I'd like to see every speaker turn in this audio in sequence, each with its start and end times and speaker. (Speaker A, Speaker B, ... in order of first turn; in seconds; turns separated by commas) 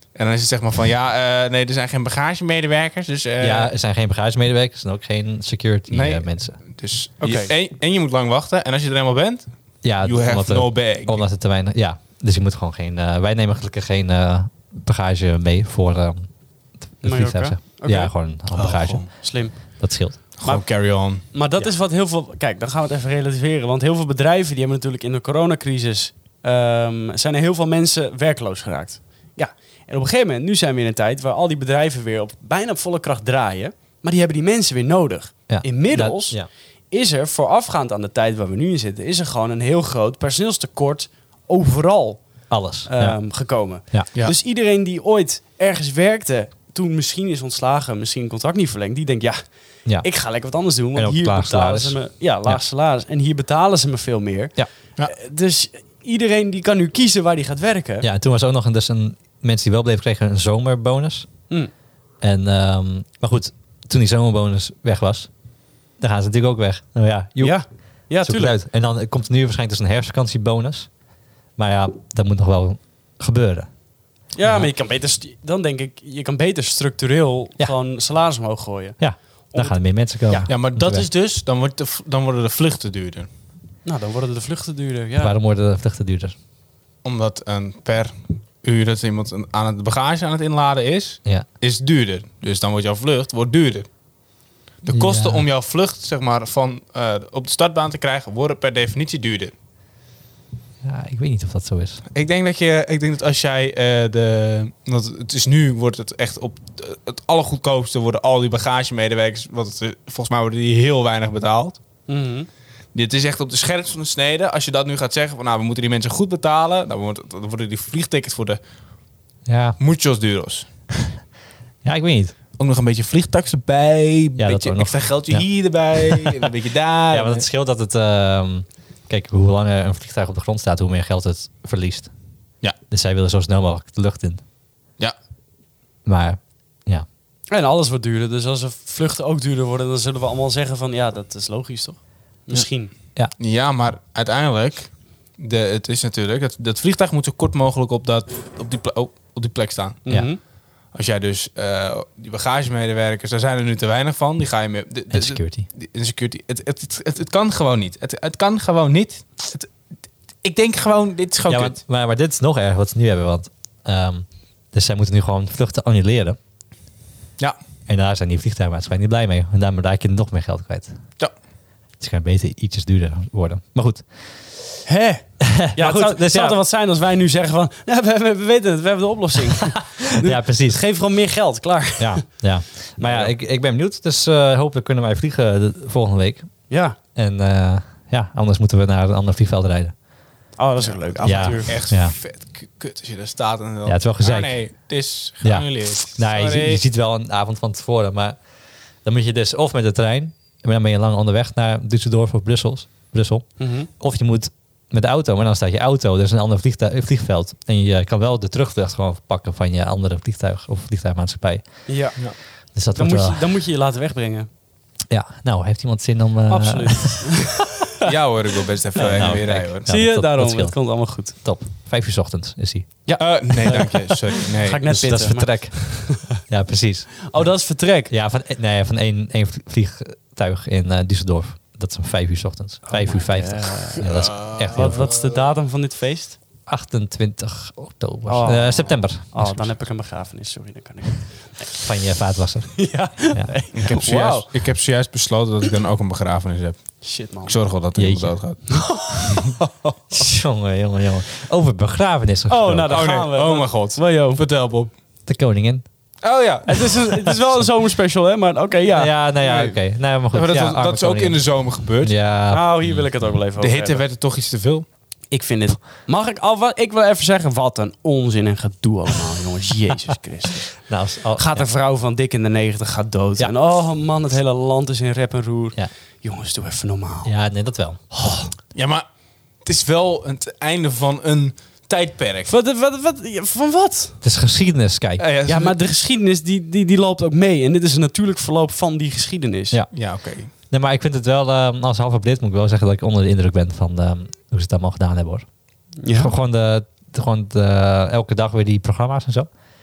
Speaker A: 0.1-3.7, Speaker B: 3.4-6.6, Speaker A: 5.9-11.2, Speaker C: 7.2-7.5, Speaker B: 9.8-16.3, Speaker B: 16.9-20.2, Speaker C: 17.0-18.1, Speaker A: 18.5-19.1, Speaker C: 19.2-49.4, Speaker A: 20.4-21.2, Speaker B: 35.5-36.5, Speaker B: 42.5-43.2, Speaker C: 50.0-54.5, Speaker B: 51.0-52.6, Speaker C: 55.1-58.1, Speaker B: 58.0-61.3, Speaker B: 62.2-65.3, Speaker B: 66.0-67.6, Speaker C: 67.4-68.5, Speaker B: 68.2-70.9, Speaker B: 71.6-73.7, Speaker C: 74.3-79.0, Speaker B: 74.4-74.7, Speaker B: 79.0-81.1, Speaker C: 79.5-80.5, Speaker A: 80.5-83.3, Speaker C: 83.8-85.3, Speaker B: 85.2-86.3, Speaker A: 87.0-93.9, Speaker A: 94.8-99.5, Speaker B: 94.9-95.5, Speaker B: 100.8-102.0, Speaker A: 102.1-111.8, Speaker C: 112.1-112.5, Speaker A: 112.9-118.6, Speaker B: 119.5-119.8, Speaker A: 119.8-121.1, Speaker B: 121.8-122.3, Speaker A: 122.6-127.5, Speaker B: 124.4-126.5, Speaker B: 127.1-132.1, Speaker B: 132.9-134.4, Speaker B: 136.1-137.1, Speaker C: 137.5-142.9, Speaker A: 143.4-150.1, Speaker C: 150.1-150.4, Speaker A: 150.9-159.7, Speaker B: 155.1-155.7, Speaker A: 160.4-161.8, Speaker B: 161.5-166.4, Speaker B: 167.9-170.9, Speaker B: 172.0-174.1, Speaker C: 174.9-182.2, Speaker B: 175.5-176.6, Speaker B: 180.2-180.8, Speaker B: 182.0-186.5, Speaker A: 183.0-183.3, Speaker C: 186.7-187.0, Speaker B: 187.2-190.0, Speaker C: 190.6-191.8, Speaker A: 190.8-196.8, Speaker B: 191.2-192.2, Speaker B: 193.9-194.6, Speaker B: 195.4-198.4, Speaker B: 199.0-211.9, Speaker C: 203.6-203.9, Speaker C: 211.9-212.2, Speaker B: 212.7-213.4, Speaker C: 212.9-214.5, Speaker B: 215.1-217.5, Speaker C: 216.5-218.1, Speaker A: 218.1-219.9, Speaker C: 219.0-221.4, Speaker B: 219.0-223.0, Speaker C: 223.1-226.4, Speaker A: 223.2-224.9, Speaker B: 224.8-227.5, Speaker C: 227.3-228.1, Speaker B: 228.1-235.1, Speaker C: 232.9-236.4, Speaker A: 234.0-235.4, Speaker B: 236.7-239.8, Speaker C: 238.3-241.7, Speaker B: 241.8-243.5, Speaker C: 242.8-244.5, Speaker A: 243.7-249.2, Speaker C: 247.0-247.6, Speaker B: 247.9-248.3, Speaker C: 248.7-250.3, Speaker B: 250.1-253.1, Speaker C: 252.5-254.4, Speaker A: 252.9-254.9, Speaker B: 255.3-255.8, Speaker A: 256.2-257.1, Speaker C: 256.7-259.8, Speaker B: 258.9-263.3, Speaker A: 260.3-262.2, Speaker C: 262.5-264.0, Speaker A: 263.6-264.9, Speaker C: 265.3-277.3, Speaker B: 270.8-271.7, Speaker B: 277.2-278.3, Speaker A: 278.7-279.1, Speaker A: 279.6-282.5, Speaker C: 282.5-284.2, Speaker B: 284.2-285.2, Speaker A: 285.2-285.8, Speaker C: 285.5-289.8, Speaker A: 289.9-290.5, Speaker B: 290.6-295.5, Speaker C: 296.0-296.3, Speaker B: 296.1-299.5